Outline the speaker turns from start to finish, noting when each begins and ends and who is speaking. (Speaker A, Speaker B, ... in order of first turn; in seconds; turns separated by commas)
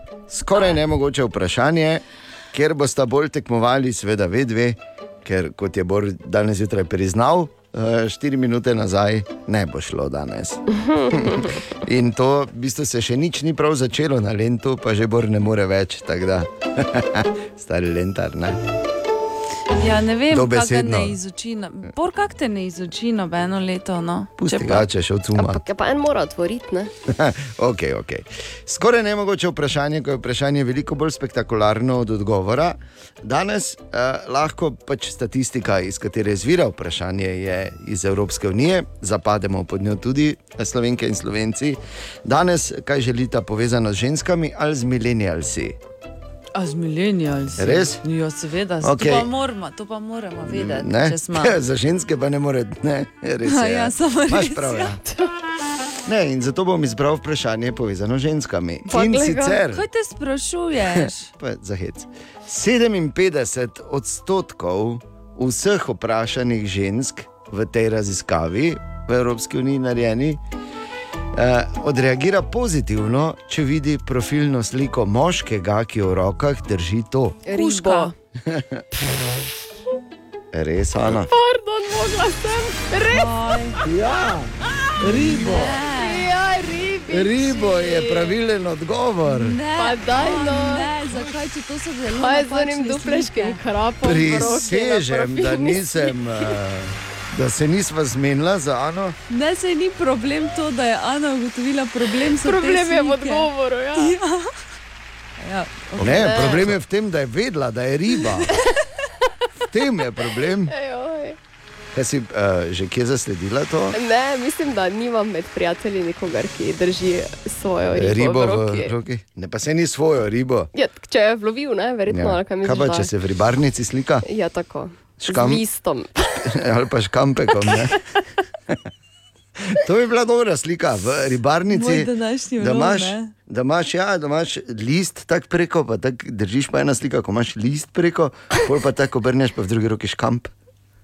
Speaker A: 0.3-18.6, Speaker B: 10.7-11.6, Speaker C: 19.8-24.9, Speaker A: 20.3-21.2, Speaker A: 24.4-25.6, Speaker B: 25.4-26.9, Speaker A: 27.1-45.8, Speaker C: 46.5-51.6, Speaker A: 47.6-48.0, Speaker A: 48.8-49.3, Speaker A: 50.5-55.0, Speaker C: 53.5-55.0, Speaker A: 56.1-59.9, Speaker B: 58.9-59.6, Speaker C: 59.7-61.3, Speaker A: 61.0-70.4, Speaker A: 71.3-77.4, Speaker B: 77.5-78.1, Speaker C: 77.5-78.1, Speaker A: 78.5-78.8, Speaker A: 80.5-81.3, Speaker B: 81.2-83.3, Speaker C: 83.1-83.8, Speaker A: 83.8-85.8, Speaker C: 85.0-86.3, Speaker B: 85.9-88.0, Speaker A: 87.1-89.6, Speaker C: 89.2-93.6, Speaker B: 89.8-90.9, Speaker B: 92.1-96.2, Speaker A: 94.0-99.2, Speaker C: 99.3-104.5, Speaker B: 102.3-104.2, Speaker C: 105.4-106.6, Speaker A: 106.0-108.5, Speaker B: 106.1-106.7, Speaker A: 109.7-110.7, Speaker B: 110.7-111.4, Speaker A: 111.9-114.0, Speaker B: 113.9-118.9, Speaker A: 117.9-120.7, Speaker B: 120.8-123.1, Speaker A: 122.1-124.2, Speaker B: 124.2-126.3, Speaker A: 125.2-125.6, Speaker A: 126.5-128.0, Speaker A: 129.6-140.5, Speaker C: 131.7-133.3